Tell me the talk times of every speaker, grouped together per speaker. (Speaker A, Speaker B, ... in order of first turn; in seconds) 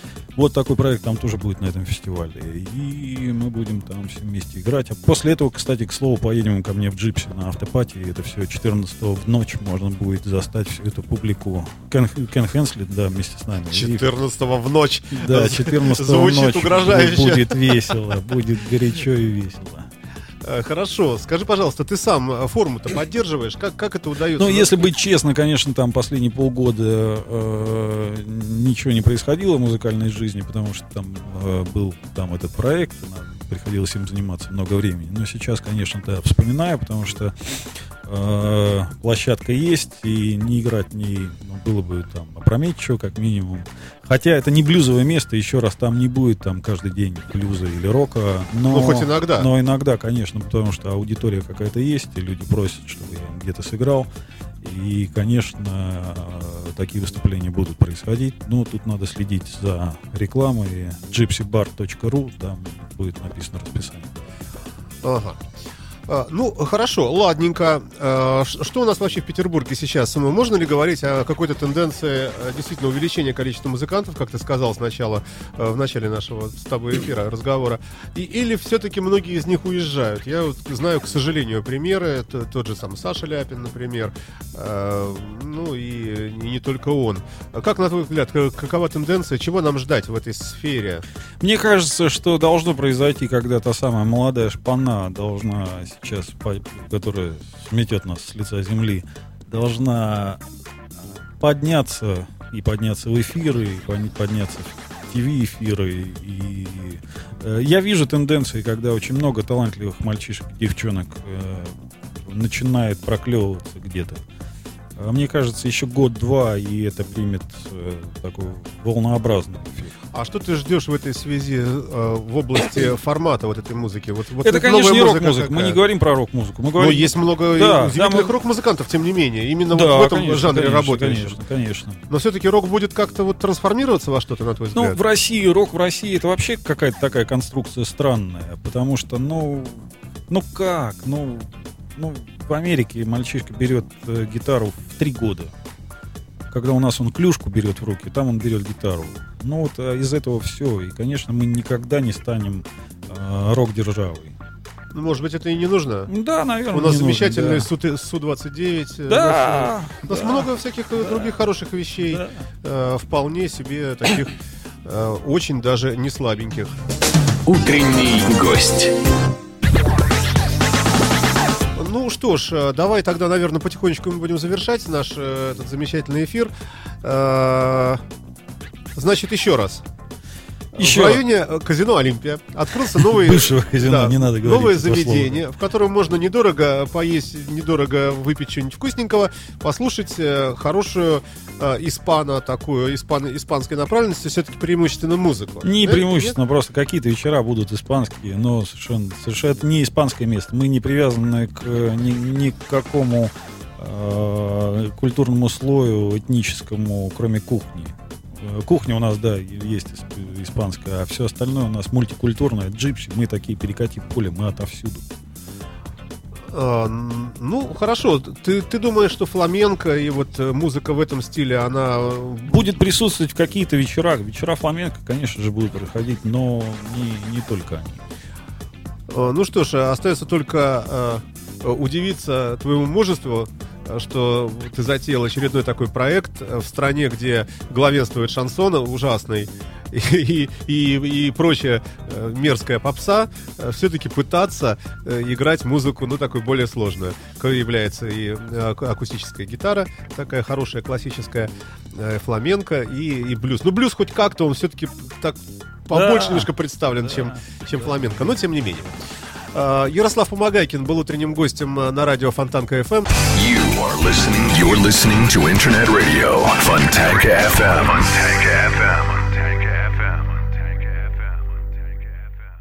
Speaker A: 0.3-14.1, 15.1-19.9, 24.4-54.1, 54.6-64.1, 91.4-100.4, 101.4-114.2, 115.0-120.0, 124.4-128.3, 129.7-132.0, 134.7-145.5, 146.5-154.3, 156.1-157.7, 159.1-160.5, 162.1-162.5, 180.8-181.2, 183.0-185.4, 195.6-215.1, 222.4-228.0, 255.9-256.5
Speaker B: 13.7-17.9, 20.4-24.8, 48.7-49.5, 65.0-65.4, 66.1-91.0, 120.1-125.8, 126.8-131.4, 132.1-135.0, 154.9-156.1, 156.7-166.8, 171.8-178.0, 178.9-179.8, 180.7-196.4, 216.5-222.6, 229.1-258.9, 259.5-263.1
Speaker C: 167.4-168.9, 263.2-270.6